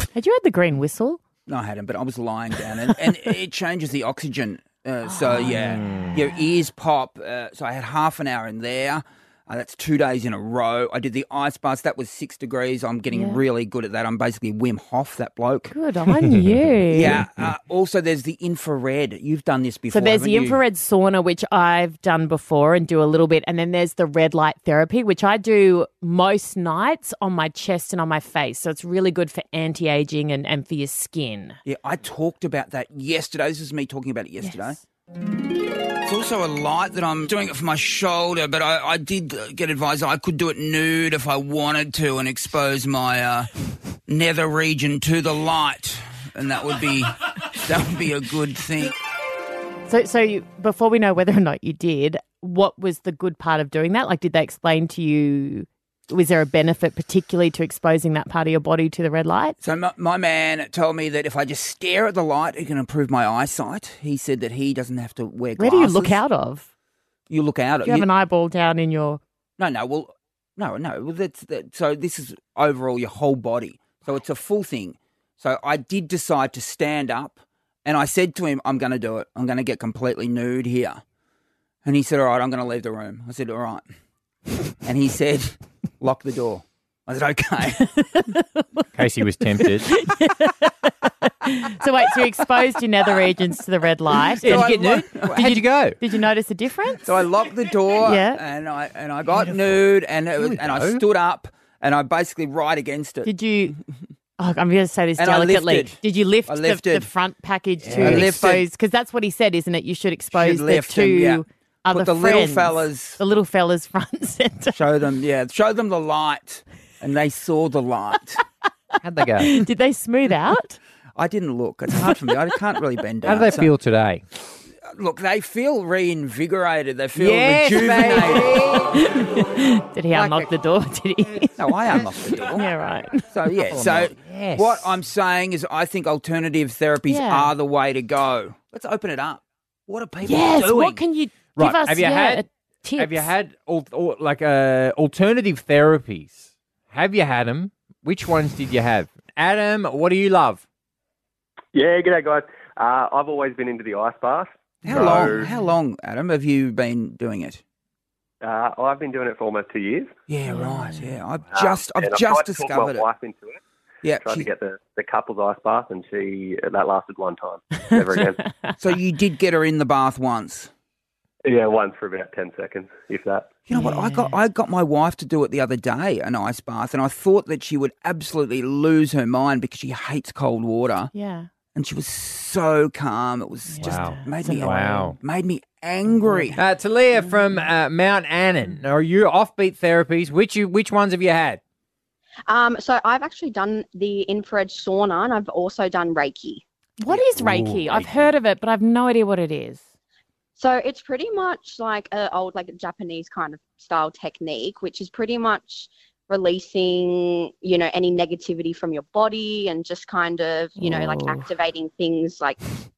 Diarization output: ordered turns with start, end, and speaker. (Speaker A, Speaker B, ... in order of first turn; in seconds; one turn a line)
Speaker A: 0.1-1.2
Speaker B: 1.5-15.7
Speaker A: 5.1-6.4
Speaker C: 5.5-6.1
Speaker A: 13.1-13.4
Speaker A: 15.7-17.2
Speaker B: 16.9-20.6
Speaker A: 19.9-31.6
Speaker B: 31.6-34.8
Speaker A: 34.4-34.8
Speaker B: 36.0-43.5
Speaker B: 44.1-48.9
Speaker A: 49.9-59.6
Speaker B: 59.6-66.2
Speaker A: 65.6-66.7
Speaker B: 67.3-68.1
Speaker A: 67.8-69.2
Speaker B: 69.6-81.0
Speaker B: 81.8-83.9
Speaker B: 84.8-87.8
Speaker A: 87.9-88.9
Speaker C: 89.0-89.9
Speaker A: 89.5-90.7
Speaker A: 91.3-97.1
Speaker B: 94.4-95.5
Speaker C: 94.4-96.0
Speaker B: 97.0-103.8
Speaker A: 98.0-98.4
Speaker C: 99.4-99.8
Speaker C: 100.4-101.0
Speaker A: 103.2-103.8
Speaker A: 104.4-114.8
Speaker B: 105.2-107.1
Speaker C: 107.8-108.3
Speaker B: 107.9-108.7
Speaker B: 110.3-113.2
Speaker B: 114.7-118.4
Speaker C: 119.0-119.6
Speaker A: 119.4-120.8
Speaker B: 121.2-123.7
Speaker C: 123.2-124.2
Speaker B: 124.8-128.7
Speaker C: 127.2-129.1
Speaker A: 128.9-131.7
Speaker C: 130.1-130.5
Speaker B: 131.6-132.7
Speaker A: 132.5-133.3
Speaker B: 133.3-141.0
Speaker C: 133.7-134.9
Speaker A: 137.1-137.5
Speaker A: 140.2-143.3
Speaker C: 141.6-142.4
Speaker C: 143.0-150.6
Speaker D: 151.7-155.5
Speaker B: 154.8-157.6
Speaker C: 154.9-155.3
Speaker A: 155.3-155.7
Speaker D: 158.4-160.1
Speaker B: 160.3-163.1
Speaker A: 160.5-161.1
Speaker D: 161.5-163.6
Speaker B: 164.0-164.5
Speaker D: 164.2-168.5
Speaker A: 167.9-168.8
Speaker B: 168.8-170.7
Speaker D: 171.5-173.6
Speaker B: 173.7-181.1
Speaker A: 173.7-174.4
Speaker A: 181.1-181.5
Speaker B: 181.7-186.6
Speaker A: 183.7-185.2
Speaker C: 183.8-185.2
Speaker A: 186.1-186.6
Speaker C: 186.5-191.6
Speaker A: 187.2-187.6
Speaker E: 192.5-196.6
Speaker A: 197.0-199.8
Speaker C: 197.1-198.3
Speaker E: 200.6-212.6
Speaker A: 210.8-211.5